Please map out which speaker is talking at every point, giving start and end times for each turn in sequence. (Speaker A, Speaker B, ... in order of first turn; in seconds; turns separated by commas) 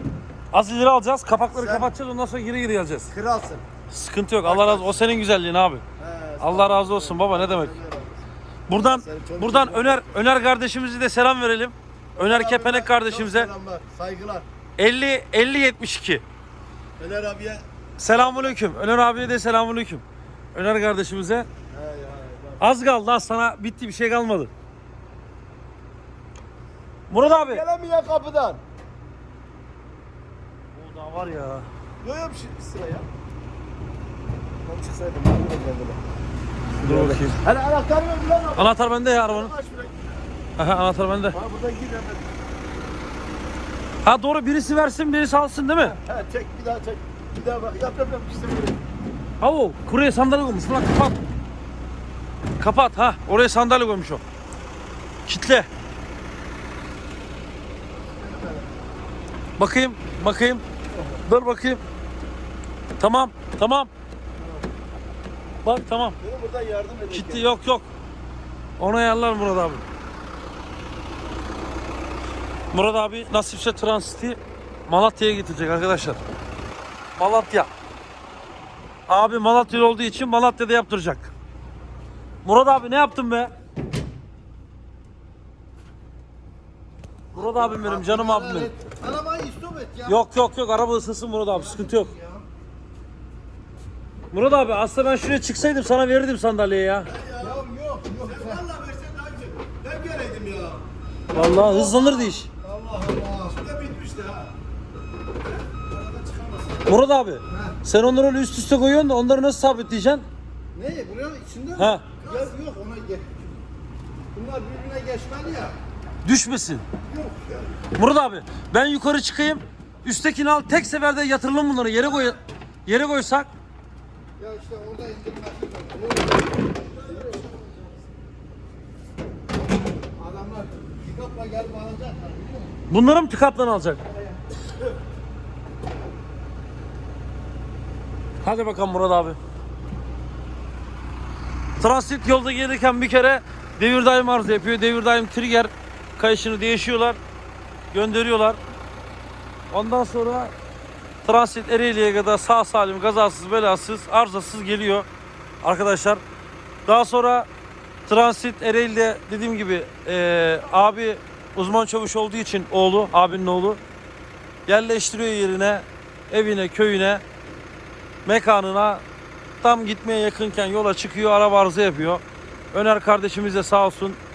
Speaker A: 0.5-3.1, Speaker B: 1.5-1.9, Speaker B: 3.1-3.6, Speaker A: 3.9-5.8, Speaker B: 4.4-5.1, Speaker B: 6.0-10.2, Speaker A: 6.4-7.7, Speaker A: 8.7-13.5, Speaker B: 12.2-14.4, Speaker A: 14.8-16.2, Speaker B: 17.0-18.6, Speaker A: 18.0-21.5, Speaker B: 21.7-22.7, Speaker A: 22.6-24.5, Speaker A: 27.1-27.6, Speaker B: 27.1-28.6, Speaker A: 30.7-31.7, Speaker B: 32.0-33.1, Speaker B: 34.6-36.0, Speaker B: 36.8-40.2, Speaker A: 36.8-37.4, Speaker A: 38.6-39.5, Speaker A: 40.6-41.4, Speaker B: 41.3-42.2, Speaker A: 44.0-46.0, Speaker B: 45.9-48.8, Speaker A: 49.4-51.2, Speaker A: 52.6-54.2, Speaker A: 55.3-55.7, Speaker B: 58.1-58.8, Speaker A: 59.6-60.6, Speaker B: 60.9-61.2, Speaker A: 61.2-61.8, Speaker A: 63.0-63.9, Speaker B: 64.4-64.6, Speaker A: 65.6-66.2, Speaker B: 66.2-67.5, Speaker A: 67.1-67.9, Speaker A: 68.8-69.8, Speaker A: 72.7-76.2, Speaker A: 77.2-77.7, Speaker A: 79.1-81.3, Speaker A: 82.4-83.5, Speaker A: 87.3-88.7, Speaker B: 87.3-88.0, Speaker C: 87.8-90.2, Speaker A: 90.0-92.1, Speaker C: 91.5-92.5, Speaker A: 94.3-97.1, Speaker B: 97.0-97.6, Speaker C: 97.4-98.6, Speaker B: 98.2-100.8, Speaker A: 101.3-102.5, Speaker C: 101.4-103.6, Speaker B: 103.5-104.5, Speaker C: 105.9-106.9, Speaker A: 106.8-110.2, Speaker C: 107.5-107.8, Speaker C: 110.7-113.6, Speaker A: 111.8-112.0, Speaker B: 112.2-112.5, Speaker C: 114.3-115.8, Speaker A: 116.2-116.8, Speaker C: 117.0-117.7, Speaker A: 118.0-123.5, Speaker C: 124.4-127.8, Speaker B: 126.9-127.5, Speaker C: 130.2-132.7, Speaker A: 132.9-134.0, Speaker C: 134.0-134.4, Speaker A: 138.4-139.4, Speaker A: 141.8-147.2, Speaker A: 147.9-148.6, Speaker A: 149.7-150.5, Speaker A: 151.2-155.1, Speaker A: 155.6-156.2, Speaker A: 156.8-157.5, Speaker A: 158.1-163.8, Speaker A: 164.7-167.2, Speaker A: 168.2-169.0, Speaker A: 169.6-174.2